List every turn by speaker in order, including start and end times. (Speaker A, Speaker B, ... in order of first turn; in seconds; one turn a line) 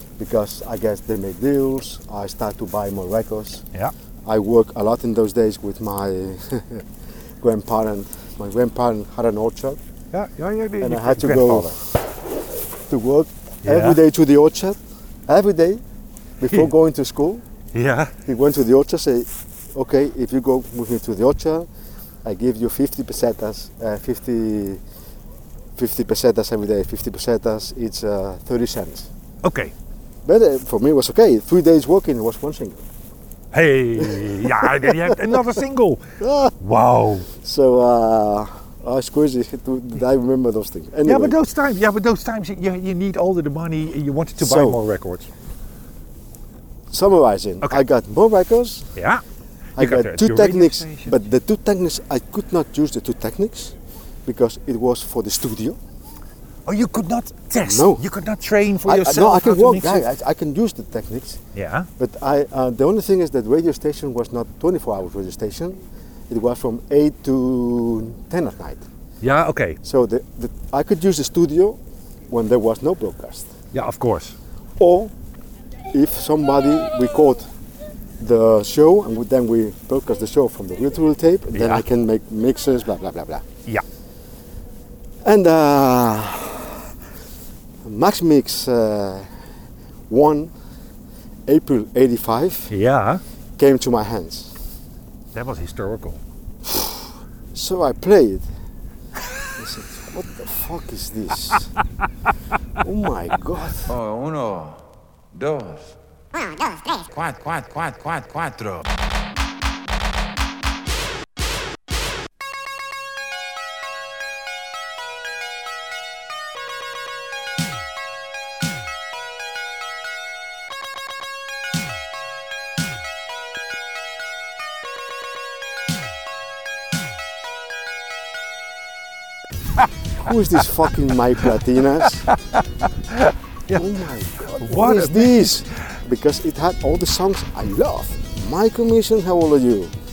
Speaker A: 0.2-3.6
Speaker A: 4.2-6.8
Speaker A: 7.4-9.8
Speaker B: 10.1-11.7
Speaker A: 10.8-11.9
Speaker A: 12.9-15.8
Speaker B: 13.6-14.0
Speaker A: 16.4-17.4
Speaker B: 17.7-18.1
Speaker A: 18.2-21.7
Speaker A: 22.2-24.8
Speaker A: 25.8-29.1
Speaker B: 29.4-29.7
Speaker A: 30.2-32.8
Speaker B: 33.5-36.0
Speaker A: 34.0-35.3
Speaker A: 36.2-36.5
Speaker B: 36.6-37.3
Speaker A: 37.4-41.4
Speaker B: 41.0-45.3
Speaker A: 44.4-44.8
Speaker A: 46.9-48.9
Speaker B: 48.9-49.2
Speaker B: 49.8-51.2
Speaker A: 49.8-53.7
Speaker A: 54.2-55.8
Speaker B: 56.6-60.0
Speaker A: 57.6-58.0
Speaker A: 58.8-61.4
Speaker B: 61.5-61.9
Speaker A: 62.0-68.8
Speaker B: 69.2-69.8
Speaker A: 69.8-71.8
Speaker A: 72.3-73.5
Speaker B: 73.7-74.3
Speaker A: 74.8-75.1
Speaker A: 75.9-77.5
Speaker A: 78.2-83.5
Speaker B: 81.5-81.8
Speaker A: 85.2-86.8
Speaker A: 87.8-89.3
Speaker A: 90.1-90.5
Speaker A: 91.5-92.7
Speaker B: 92.7-93.2
Speaker A: 93.6-94.5
Speaker B: 95.3-96.2
Speaker A: 97.5-98.4
Speaker A: 99.6-101.7
Speaker A: 102.8-103.9
Speaker C: 103.9-104.8
Speaker C: 105.3-105.9
Speaker C: 106.7-108.8
Speaker A: 130.2-132.3
Speaker B: 132.3-134.0
Speaker A: 133.7-139.9
Speaker B: 134.6-135.6